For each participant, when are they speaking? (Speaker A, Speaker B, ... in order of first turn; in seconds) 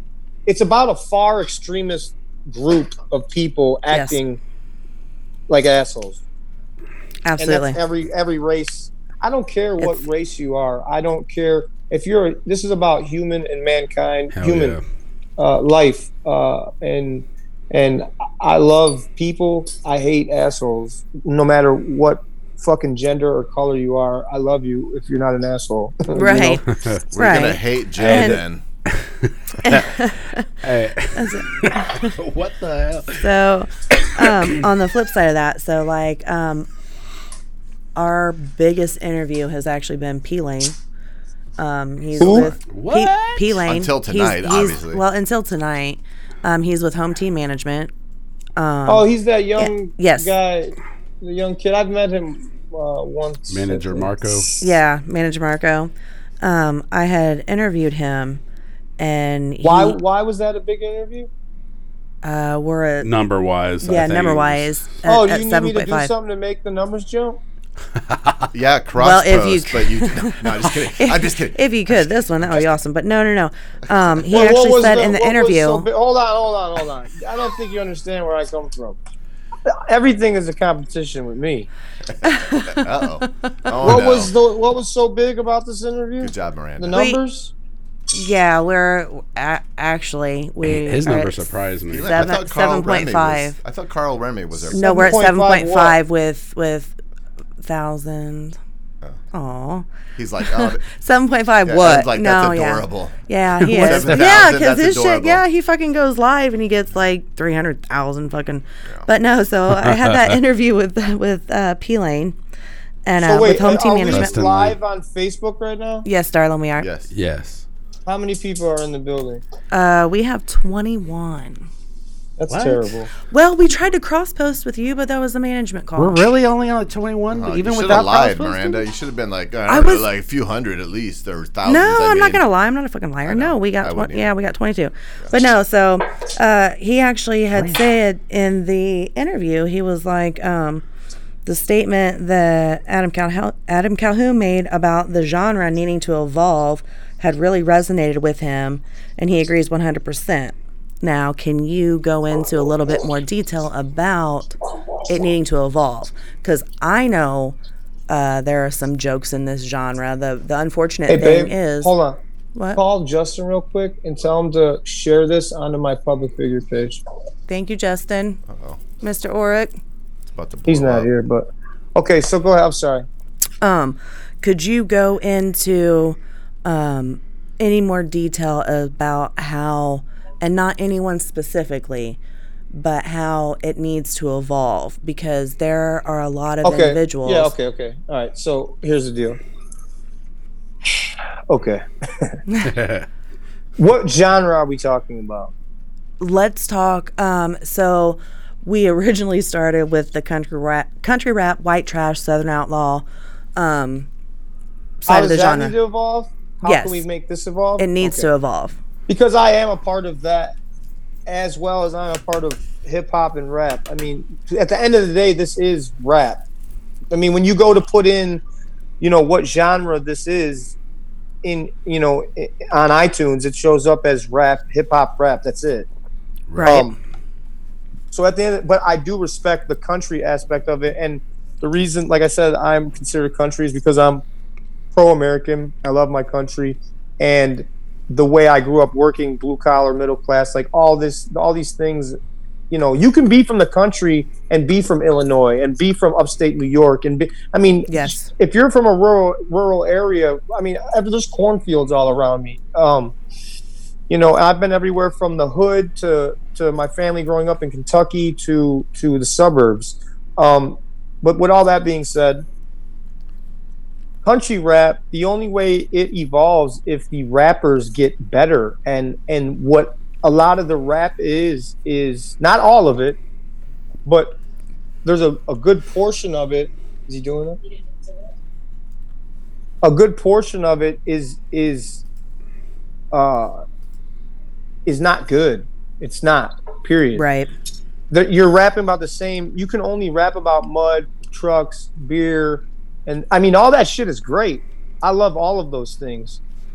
Speaker A: 0.5-4.4, 5.5-6.2, 7.4-14.8, 15.4-26.7, 42.2-42.5, 48.9-54.6, 59.6-61.3, 65.0-67.4, 74.3-79.0, 79.7-81.7, 83.8-87.5, 94.7-96.0, 113.2-116.1, 118.1-119.4, 122.4-123.1, 161.1-162.2, 162.8-167.0, 170.7-173.1, 186.6-189.4, 190.9-192.4, 193.8-195.5, 205.1-208.3, 209.1-210.5, 211.3-216.4, 217.1-218.4, 219.0-220.8, 221.4-225.9, 226.6-226.9, 228.1-234.2, 234.9-242.2, 242.7-253.1, 254.1-262.4, 264.2-273.2, 274.1-274.4, 275.1-277.6, 279.8-282.0, 283.1-283.6, 284.9-287.2, 288.1-296.4
Speaker B: 3.9-4.2, 7.2-7.8, 9.8-10.1, 26.1-28.4, 29.6-30.5, 31.1-32.2, 33.2-36.7, 38.0-40.8, 41.6-47.9, 48.6-50.3, 54.6-58.4, 59.0-60.0, 62.2-63.1, 63.8-66.1, 69.0-75.9, 82.2-84.1, 86.9-87.2, 88.1-91.5, 92.1-93.6, 94.7-97.0, 97.6-98.6, 99.3-99.9, 100.4-112.4, 113.0-114.4, 116.0-116.9, 119.7-121.7, 123.3-126.2, 129.7-130.1, 131.6-140.8, 141.4-157.6, 158.1-161.9, 162.6-162.8, 167.5-168.4, 169.0-169.8, 173.6-182.2, 182.7-187.5, 196.2-204.1, 205.1-205.8, 206.6-207.1, 207.8-208.8, 226.6-226.9, 247.9-248.3, 287.1-287.5
Speaker C: 14.3-14.8, 28.0-28.3, 29.0-29.9, 30.6-33.3, 34.2-34.6, 42.7-43.5, 53.5-54.5, 63.0-64.7, 90.6-92.2, 103.7-104.2, 109.8-110.4, 114.1-114.8, 117.1-117.7, 122.5-122.9, 126.0-128.8, 192.7-193.1, 226.5-226.9
Speaker D: 27.1-28.6, 43.6-45.0, 68.5-72.7, 73.9-74.3, 82.1-84.3, 86.2-87.0, 91.9-95.3, 100.2-100.8, 101.7-105.4, 116.8-117.1, 127.3-132.4, 133.2-134.3, 135.2-135.5, 168.5-168.8, 170.3-171.1